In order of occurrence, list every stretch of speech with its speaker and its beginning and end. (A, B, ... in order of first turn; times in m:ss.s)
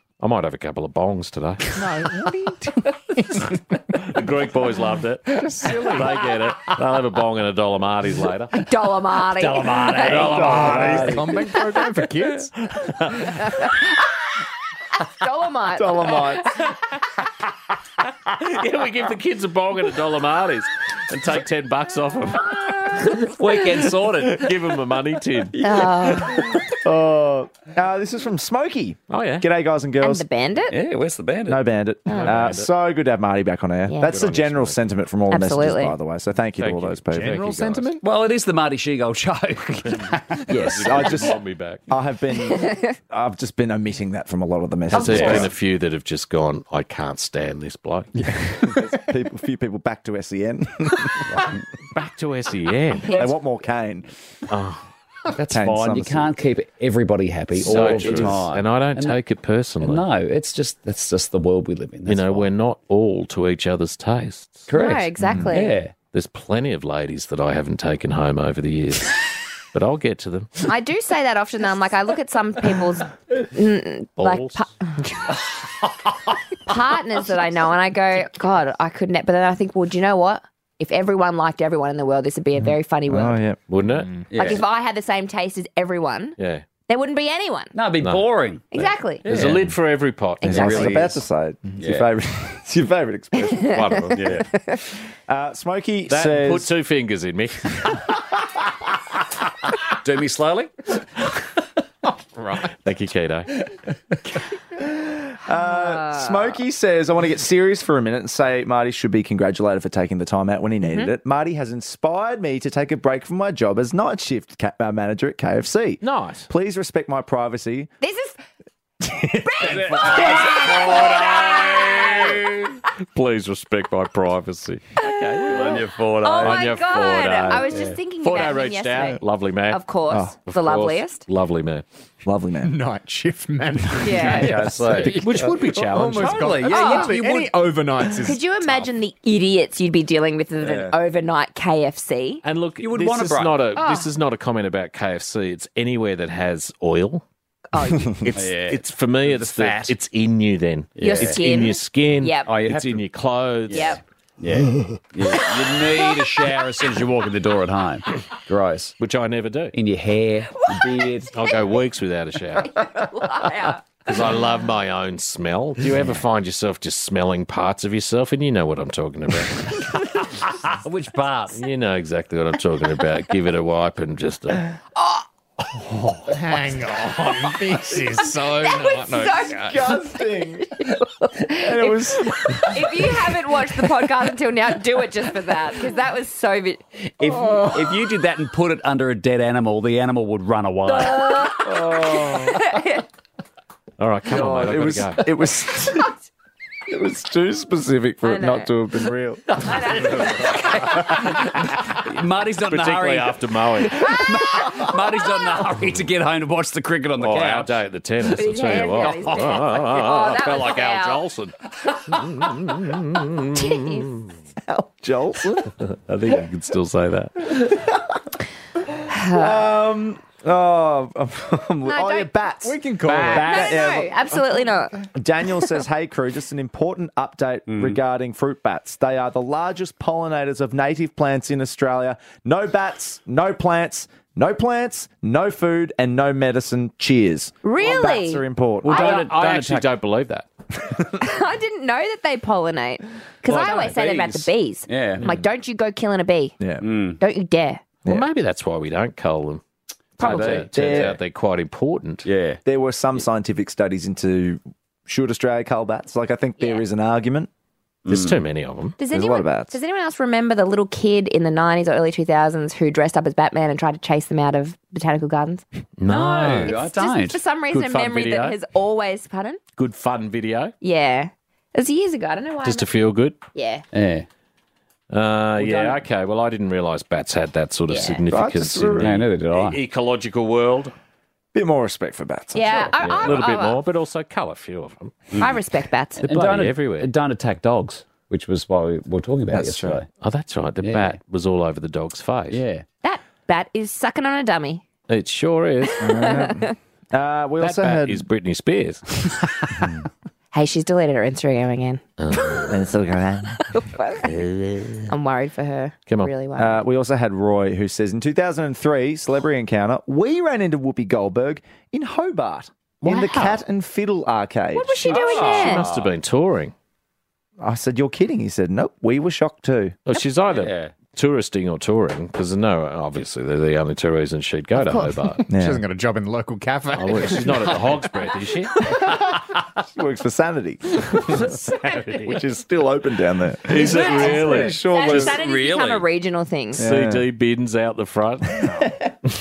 0:00.2-0:01.8 A
0:01.7-0:03.6 B
0:04.0-0:08.6 A
0:05.4-0:06.2 B
0:08.6-0:10.5 C
0:09.4-0:11.4 D
0:10.0-0:13.2 B
0:10.6-0:10.8 A
0:15.2-0:16.2 C
0:15.8-0:16.5 E
0:18.2-0:23.3 A
0:23.1-0:24.5 D
0:24.2-0:25.6 A
0:25.6-0:26.2 D
0:25.6-0:26.6 C
0:26.7-0:30.3 E
0:29.1-0:29.5 A
0:30.0-0:30.8 C
0:30.7-0:31.6 D
0:31.5-0:37.5 E
0:32.1-0:32.3 C
0:32.1-0:32.7 A
0:33.9-0:34.1 C
0:34.0-0:34.9 A
0:35.3-0:36.0 C
0:36.6-0:37.9 A
0:37.1-0:38.0 B
0:38.0-0:41.2 D
0:40.5-0:45.5 E
0:40.6-0:41.8 A
0:42.5-0:42.8 C
0:44.9-0:48.1 A
0:45.0-0:45.5 D
0:48.2-0:48.7 B
0:48.8-0:51.4 E
0:51.3-0:51.6 D
0:51.9-0:53.3 A
0:53.1-0:54.1 E
0:54.5-0:54.8 A
0:55.3-0:59.2 D
0:55.5-0:56.3 E
0:57.6-1:00.0 A
0:57.6-0:58.4 E
0:59.8-1:02.5 D
1:02.1-1:04.7 A
1:04.7-1:05.9 D
1:04.7-1:05.8 C
1:06.1-1:09.2 A
1:09.7-1:10.5 A
1:10.7-1:15.1 C
1:14.2-1:14.6 A
1:16.7-1:23.4 C
1:23.1-1:23.6 E
1:23.7-1:24.2 A
1:24.3-1:24.6 D
1:24.4-1:26.4 C
1:26.4-1:26.6 A
1:26.9-1:27.7 C
1:27.7-1:28.6 D
1:28.7-1:29.2 C
1:28.8-1:31.0 A
1:29.2-1:29.7 D
1:30.4-1:31.0 C
1:30.4-1:33.9 E
1:30.4-1:31.2 D
1:31.8-1:32.1 D
1:33.7-1:34.4 A
1:34.2-1:34.5 D
1:34.5-1:34.8 C
1:35.3-1:36.7 E
1:36.1-1:38.1 A
1:40.0-1:40.7 D
1:42.8-1:43.5 A
1:44.8-1:57.9 E
1:45.5-1:46.5 C
1:50.8-1:51.1 C
1:56.0-1:56.5 A
1:58.0-1:58.4 C
1:59.0-2:00.1 E
1:59.5-2:02.1 C
1:59.6-2:02.4 D
1:59.6-2:07.7 A
2:05.0-2:11.2 C
2:05.5-2:08.0 D
2:08.2-2:09.8 A
2:10.4-2:11.8 A
2:12.2-2:12.8 E
2:12.6-2:18.4 B
2:14.0-2:14.6 C
2:14.2-2:17.8 D
2:14.9-2:16.5 A
2:16.7-2:17.2 C
2:18.2-2:22.4 C
2:20.6-2:21.0 E
2:22.4-2:27.2 A
2:22.8-2:23.6 D
2:23.8-2:24.1 C
2:27.7-2:28.2 C
2:27.9-2:28.3 E
2:28.2-2:34.0 A
2:28.4-2:29.9 D
2:31.0-2:31.4 D
2:31.0-2:32.5 C
2:32.5-2:33.0 D
2:33.7-2:39.0 D
2:33.7-2:34.0 C
2:39.0-2:39.8 A
2:39.7-2:41.3 D
2:41.3-2:42.8 A
2:42.8-2:43.8 C
2:44.0-2:49.8 A
2:50.5-2:51.6 D
2:51.5-2:54.7 A
2:55.9-2:56.2 D
2:56.3-2:59.8 B
2:58.6-2:59.6 C
2:59.1-3:00.9 E
3:00.8-3:06.8 C
3:01.5-3:03.5 E
3:07.2-3:11.5 D
3:10.9-3:13.0 C
3:11.6-3:12.8 E
3:14.0-3:15.3 A
3:14.3-3:16.2 E
3:16.9-3:19.7 E
3:18.2-3:18.7 C
3:19.6-3:21.0 C
3:20.8-3:27.7 D
3:22.7-3:24.2 A
3:27.2-3:34.3 A
3:28.3-3:31.2 C
3:28.7-3:29.5 D
3:33.6-3:34.1 C
3:34.7-3:35.7 E
3:35.6-3:37.8 A
3:39.1-3:39.7 C
3:39.3-3:44.3 E
3:41.9-3:42.5 C
3:42.6-3:43.7 B
3:43.1-3:43.5 A
3:43.3-3:45.0 C
3:45.1-3:59.2 E
3:47.7-3:48.0 D
3:57.6-3:58.4 C
3:58.8-3:59.9 D
3:58.9-4:00.5 A
4:01.2-4:06.6 C
4:03.5-4:05.3 D
4:06.6-4:06.8 E
4:06.8-4:07.2 D
4:07.2-4:07.8 C
4:08.1-4:09.6 A
4:10.2-4:12.3 A
4:10.2-4:10.7 C
4:10.2-4:11.2 D
4:10.7-4:11.2 E
4:12.2-4:12.6 D
4:12.6-4:17.5 E
4:16.6-4:16.8 C
4:18.1-4:18.4 D
4:18.1-4:19.0 A
4:19.0-4:29.6 C
4:19.1-4:19.8 E
4:26.0-4:26.8 A
4:26.1-4:27.4 D
4:27.7-4:28.6 A
4:29.8-4:30.7 A
4:30.8-4:32.9 C
4:32.6-4:33.4 A
4:33.5-4:33.8 C
4:33.9-4:34.3 D
4:35.1-4:40.9 A
4:35.6-4:36.0 D
4:37.9-4:38.2 C
4:38.3-4:39.1 E
4:39.0-4:39.8 D
4:41.5-4:43.4 E
4:42.5-4:43.8 C
4:43.0-4:45.3 A
4:45.4-4:46.2 C
4:46.2-4:50.1 D
4:46.2-4:47.1 A
4:49.5-4:50.0 E
4:50.2-4:52.6 A
4:50.8-4:51.2 D
4:52.5-4:52.8 D
4:53.0-4:54.8 C
4:55.1-4:56.4 A
4:56.0-4:58.2 E
4:56.0-4:56.8 C
4:57.6-4:59.4 A
5:00.5-5:02.7 C
5:02.2-5:02.8 A
5:02.7-5:03.6 E
5:03.7-5:04.3 C
5:04.2-5:05.1 A
5:05.1-5:06.8 C
5:06.6-5:15.5 E
5:13.0-5:13.6 C
5:14.7-5:15.9 C
5:15.1-5:16.1 D
5:15.3-5:16.7 A
5:17.6-5:20.0 E
5:20.1-5:25.4 A
5:20.5-5:20.9 D
5:25.5-5:25.8 E
5:25.5-5:28.0 B
5:27.0-5:28.8 A
5:29.9-5:35.4 E
5:33.7-5:34.8 A
5:33.7-5:36.1 D
5:33.8-5:36.8 C
5:36.8-5:37.3 E
5:36.8-5:38.8 A
5:38.6-5:39.1 E